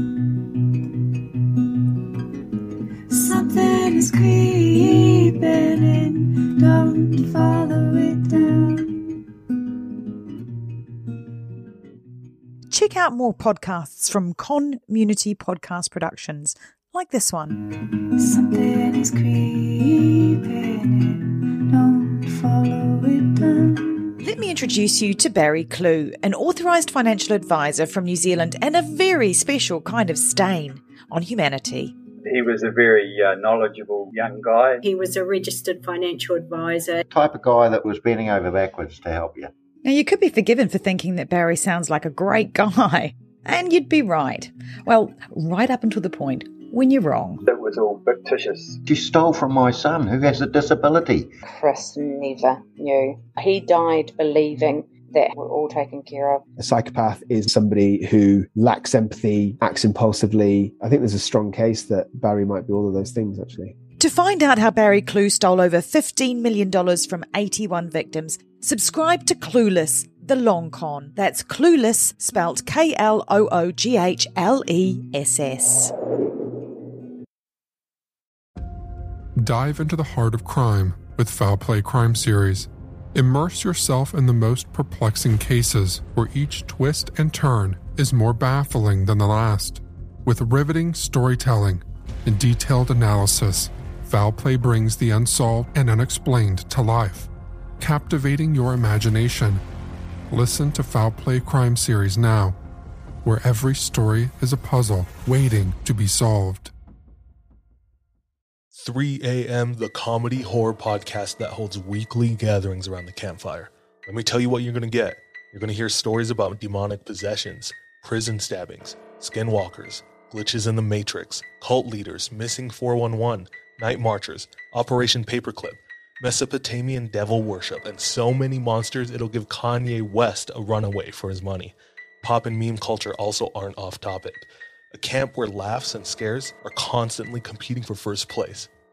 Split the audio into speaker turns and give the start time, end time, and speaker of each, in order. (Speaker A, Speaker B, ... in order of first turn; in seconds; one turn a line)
Speaker A: 3.1-9.2
Speaker B: 12.7-17.6
Speaker A: 18.2-24.1
Speaker B: 24.2-31.9
Speaker C: 32.2-34.9
Speaker D: 34.9-37.0
Speaker E: 37.1-39.5
Speaker B: 39.9-47.4
Speaker C: 47.5-48.8
Speaker E: 48.9-51.3
Speaker F: 51.4-56.5
Speaker G: 56.6-63.7
Speaker B: 64.0-75.9
Speaker H: 79.4-97.3
Speaker H: 97.8-99.6
Speaker H: 100.3-102.6
Speaker H: 103.2-106.7
Speaker I: 108.7-138.7